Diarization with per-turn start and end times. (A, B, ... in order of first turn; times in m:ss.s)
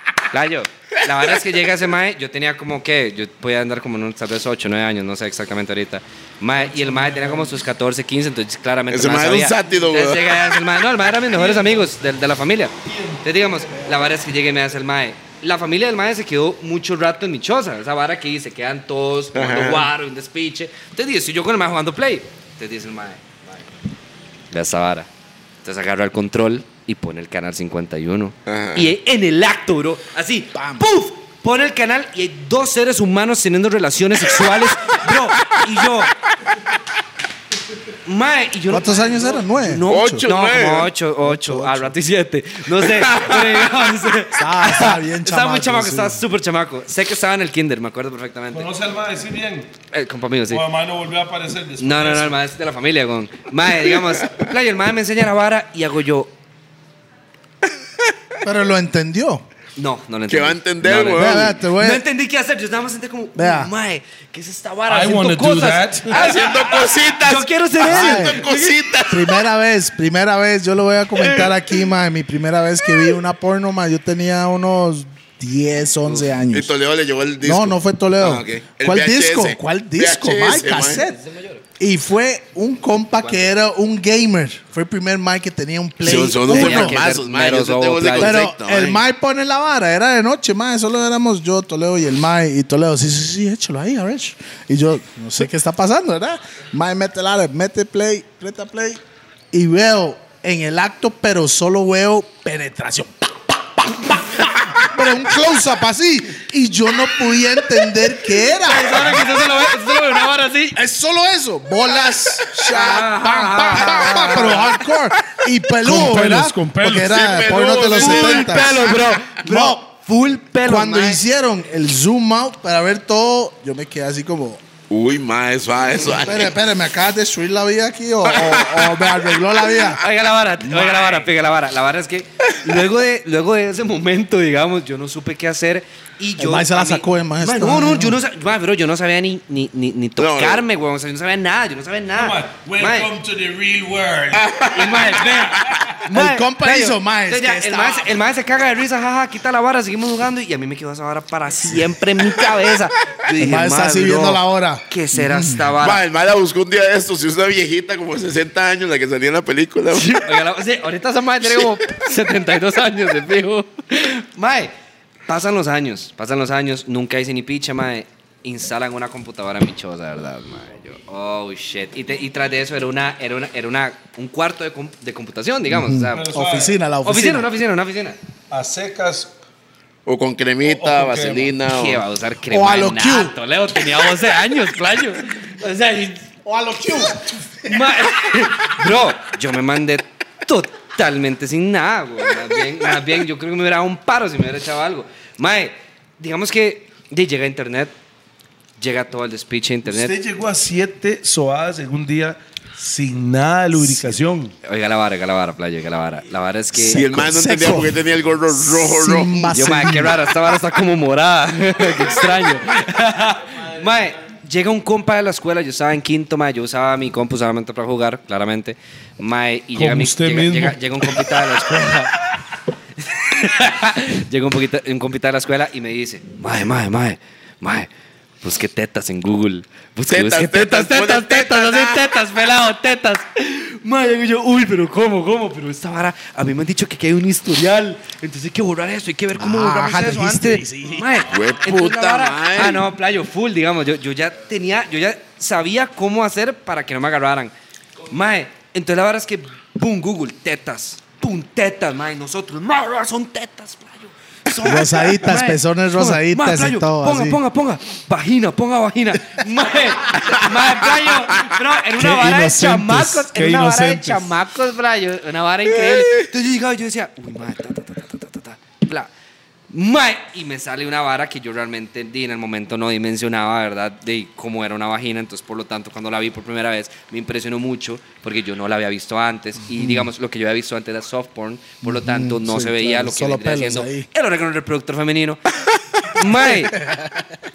0:00.3-0:23.7 A
0:06.6-0:07.6 B
0:08.9-0:10.6 C
0:11.3-0:11.8 B
0:19.3-0:19.9 C
0:24.5-0:25.1 A
0:25.6-0:36.1 A
0:28.5-0:28.9 C
0:30.5-0:30.8 D
0:38.0-0:48.7 A
0:38.7-0:40.2 D
0:39.9-0:40.9 C
0:41.2-0:41.9 D
0:42.8-0:43.7 C
0:44.3-0:46.2 D
0:48.5-0:49.7 B
0:49.9-0:50.6 A
0:50.5-0:52.4 B
0:51.8-0:56.3 A
0:58.4-0:59.4 D
0:59.8-1:08.8 A
1:00.3-1:01.6 C
1:01.1-1:02.0 D
1:03.3-1:03.7 D
1:04.9-1:06.3 B
1:06.1-1:09.4 C
1:07.8-1:08.4 D
1:09.1-1:16.7 D
1:16.5-1:21.0 C
1:17.4-1:21.2 D
1:20.7-1:21.6 A
1:21.8-1:27.0 D
1:23.2-1:23.5 A
1:26.0-1:29.0 C
1:26.4-1:28.4 A
1:28.2-1:49.3 D
1:48.6-1:50.8 A
1:50.7-1:59.8 D
1:52.6-1:54.8 A
1:53.7-1:54.1 C
1:55.8-1:57.3 B
1:57.0-1:59.0 C
1:57.9-2:01.2 A
2:00.6-2:04.6 D
2:04.9-2:06.5 C
2:06.1-2:10.0 D
2:08.2-2:09.9 C
2:09.9-2:23.1 A
2:10.7-2:11.2 C
2:16.4-2:18.2 D
2:20.2-2:20.6 C
2:22.1-2:26.0 B
2:24.3-2:25.6 C
2:24.7-2:36.0 A
2:26.1-2:28.1 D
2:33.4-2:35.7 D
2:35.8-2:40.2 C
2:39.9-2:44.7 A
2:45.3-2:56.3 A
2:55.7-2:57.5 D
2:56.1-2:56.7 B
2:57.0-2:58.2 A
2:58.5-2:59.3 B
3:00.0-3:02.0 C
3:00.6-3:01.6 B
3:01.6-3:06.3 A
3:02.5-3:03.3 D
3:06.4-3:07.8 D
3:07.6-3:17.9 A
3:18.8-3:20.1 A
3:19.8-3:24.5 B
3:23.8-3:24.2 D
3:24.6-3:27.2 A
3:26.7-3:28.0 D
3:26.8-3:29.5 C
3:28.5-3:30.2 D
3:29.5-3:42.2 A
3:39.7-3:41.9 B
3:43.0-3:47.9 A
3:48.4-4:07.5 A
3:50.1-3:52.0 C
3:59.4-4:01.1 D
4:01.3-4:02.8 C
4:08.1-4:29.1 A
4:14.6-4:17.4 D
4:22.0-4:24.3 B
4:25.9-4:26.2 C
4:29.7-4:45.4 A
4:39.8-4:40.1 D
4:41.8-4:44.1 D
4:46.0-4:46.8 A